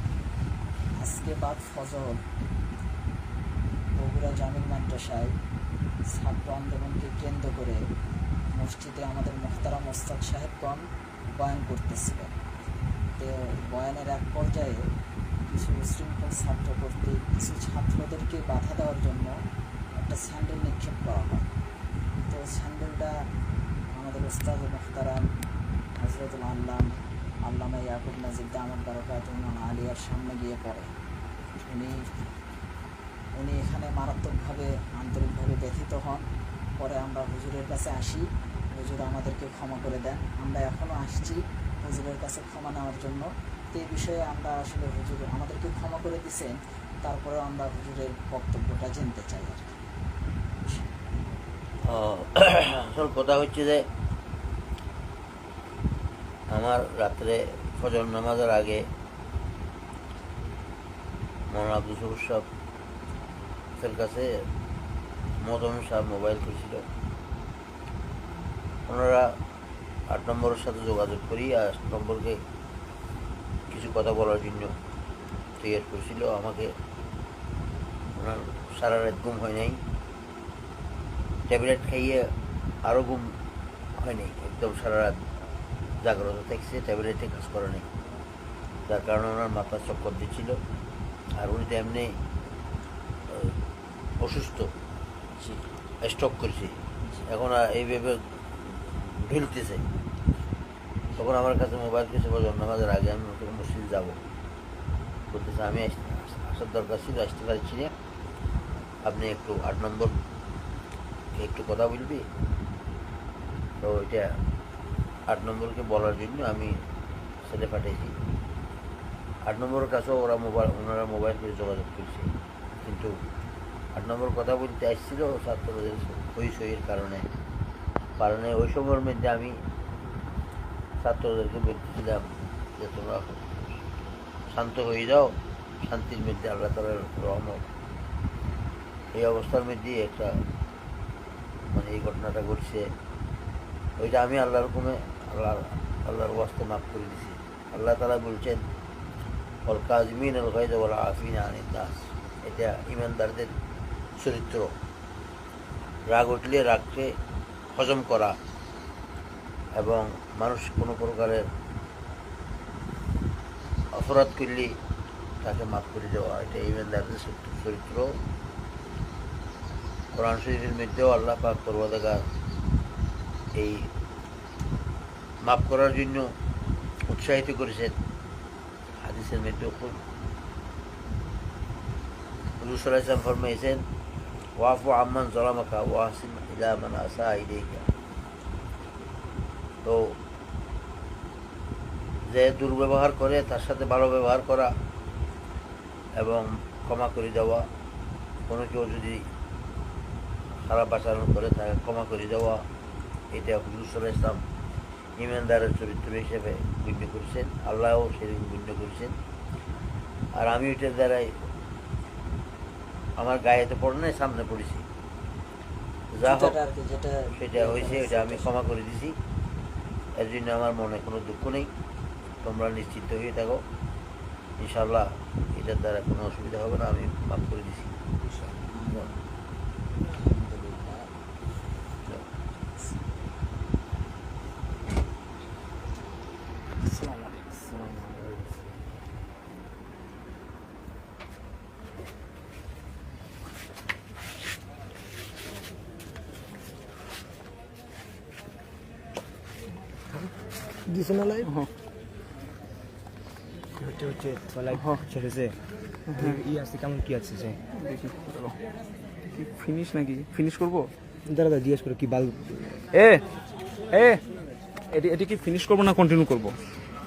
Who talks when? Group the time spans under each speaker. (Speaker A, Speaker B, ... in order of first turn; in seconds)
Speaker A: 1.0-2.2, 4.0-5.3, 6.0-7.8, 8.5-12.3, 13.2-14.9, 15.5-19.3, 19.9-21.5, 22.3-23.2, 23.9-25.3, 25.9-30.9, 31.7-32.1, 33.4-49.7, 216.2-218.7, 228.7-229.1
Speaker B: 51.8-53.9, 56.5-58.9, 61.5-62.5, 63.8-64.5, 65.4-66.8, 68.9-69.4, 70.1-72.4, 73.7-74.8, 75.6-76.8, 78.1-79.8, 81.5-83.4, 84.0-85.2, 86.0-87.9, 88.9-90.6, 91.3-92.2, 93.3-93.5, 94.2-94.7, 95.4-99.9, 101.1-104.2, 105.3-107.9, 109.0-110.2, 111.3-112.3, 113.8-114.4, 115.3-116.8, 117.4-118.1, 119.4-123.2, 123.9-127.3, 128.2-129.6, 131.0-133.8, 134.5-137.7, 139.1-140.4, 141.6-142.9, 144.0-148.7, 149.7-153.5, 154.2-154.8, 156.1-157.2, 157.7-158.4, 159.7-161.5, 163.9-164.8, 165.4-168.2, 170.1-172.3, 173.5-173.9, 175.4-176.3, 177.1-177.9, 179.0-180.0, 182.6-183.9, 184.6-187.9, 189.8-190.2, 192.2-194.8, 196.1-197.7, 198.5-199.2, 200.6-202.7, 203.3-204.4, 205.2-209.2, 210.3-211.5, 213.2-214.8, 216.1-216.6, 217.3-219.2, 220.2-221.7, 222.4-223.6, 224.6-227.9
Speaker C: 230.3-231.0, 253.8-255.6, 256.1-257.6, 261.2-262.8
Speaker D: 251.4-251.7, 254.7-255.0, 256.1-256.4, 257.7-258.6, 259.3-260.9, 262.9-263.2, 263.9-264.2, 264.9-266.6